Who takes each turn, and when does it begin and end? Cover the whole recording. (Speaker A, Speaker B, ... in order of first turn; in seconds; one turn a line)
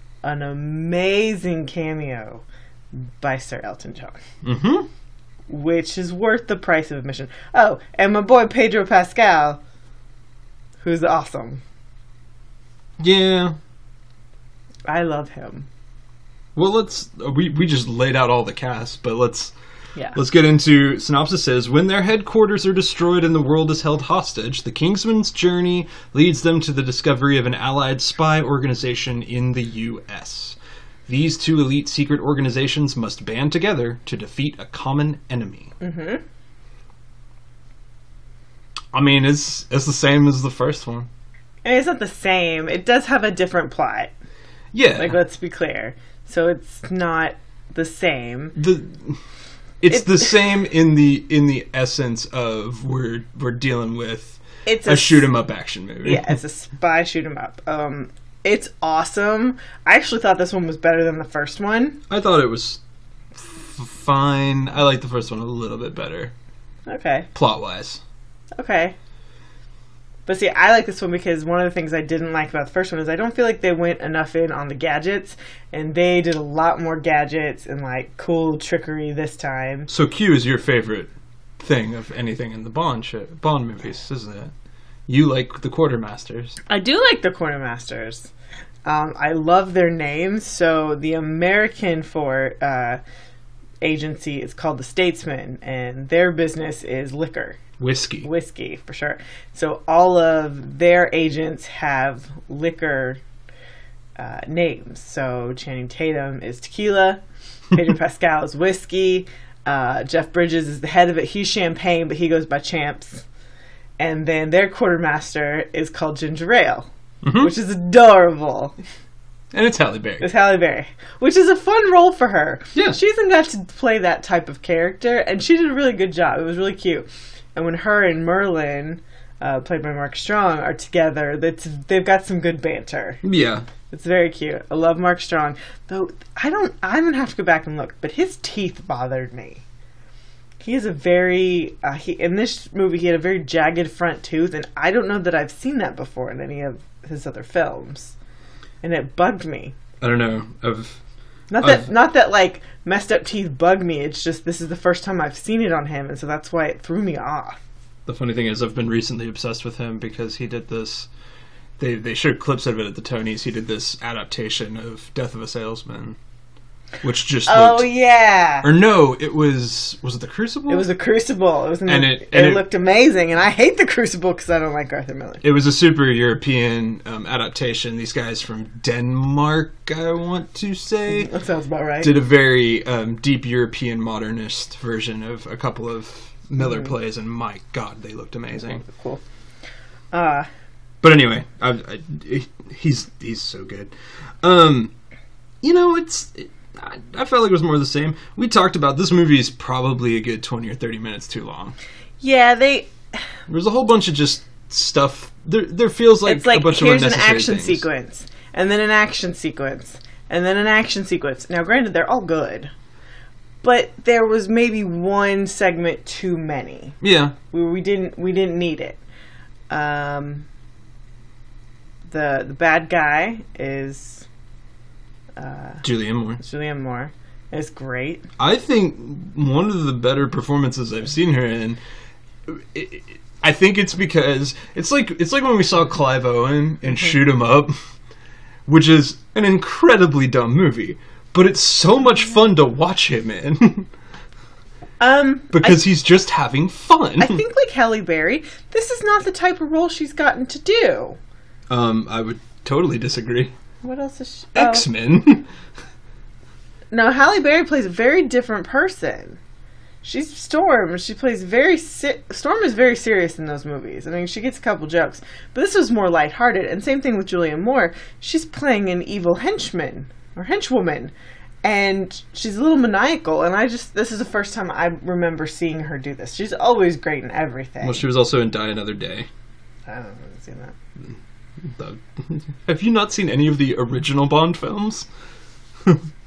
Speaker A: 0.2-4.2
Speaker B: 4.4-4.9
Speaker A: 5.5-9.6
Speaker A: 10.8-11.6
Speaker B: 13.0-13.6
Speaker A: 14.9-15.7
Speaker B: 16.6-19.6
Speaker B: 20.1-35.8
Speaker A: 35.8-36.2
Speaker B: 38.9-41.1
Speaker A: 41.6-44.1
Speaker B: 44.7-45.2
Speaker A: 45.0-48.6
Speaker B: 48.6-49.2
Speaker B: 49.8-56.4
Speaker A: 49.9-50.4
Speaker A: 54.6-55.3
Speaker A: 56.0-62.0
Speaker B: 62.1-62.8
Speaker B: 63.3-66.3
Speaker A: 66.9-67.3
Speaker B: 67.3-68.0
Speaker A: 68.6-69.0
Speaker A: 70.3-79.9
Speaker B: 79.9-84.5
Speaker B: 85.1-86.6
Speaker A: 86.7-88.3
Speaker A: 88.8-93.0
Speaker A: 93.8-97.6
Speaker B: 97.8-98.3
Speaker A: 98.2-103.2
Speaker A: 104.2-113.2
Speaker A: 114.0-118.8
Speaker B: 117.2-117.5
Speaker B: 119.5-120.3
Speaker A: 120.2-133.2
Speaker B: 133.2-133.7
Speaker A: 133.9-139.6
Speaker A: 140.6-148.1
Speaker A: 148.8-149.8
Speaker B: 150.0-151.0
Speaker A: 151.5-157.6
Speaker B: 151.6-151.9
Speaker B: 158.1-161.1
Speaker B: 161.8-166.2
Speaker B: 167.0-167.9
Speaker A: 167.5-168.7
Speaker B: 168.6-170.9
Speaker A: 170.7-175.4
Speaker B: 171.9-172.7
Speaker B: 175.4-181.3
Speaker A: 181.1-182.2
Speaker B: 182.0-188.8
Speaker A: 186.6-186.9
Speaker A: 188.8-189.2
Speaker A: 190.1-190.5
Speaker B: 191.0-194.9
Speaker B: 195.6-201.8
Speaker A: 202.2-203.2
Speaker B: 203.5-207.8
Speaker A: 206.2-212.7
Speaker A: 213.6-217.0
Speaker B: 217.0-217.4
Speaker A: 217.5-219.0
Speaker A: 219.7-220.5
Speaker A: 222.1-224.3
Speaker A: 225.4-225.9
Speaker B: 225.8-226.4
Speaker A: 226.4-228.3
Speaker B: 228.4-231.8
Speaker B: 232.5-237.8
Speaker B: 238.7-243.9
Speaker A: 245.0-245.8
Speaker B: 245.5-247.4
Speaker A: 247.2-251.2
Speaker B: 251.7-253.5
Speaker A: 253.8-254.9
Speaker B: 254.6-255.5
Speaker A: 256.9-259.4
Speaker A: 260.0-278.0
Speaker B: 277.8-279.3
Speaker A: 279.9-280.8
Speaker B: 281.0-285.1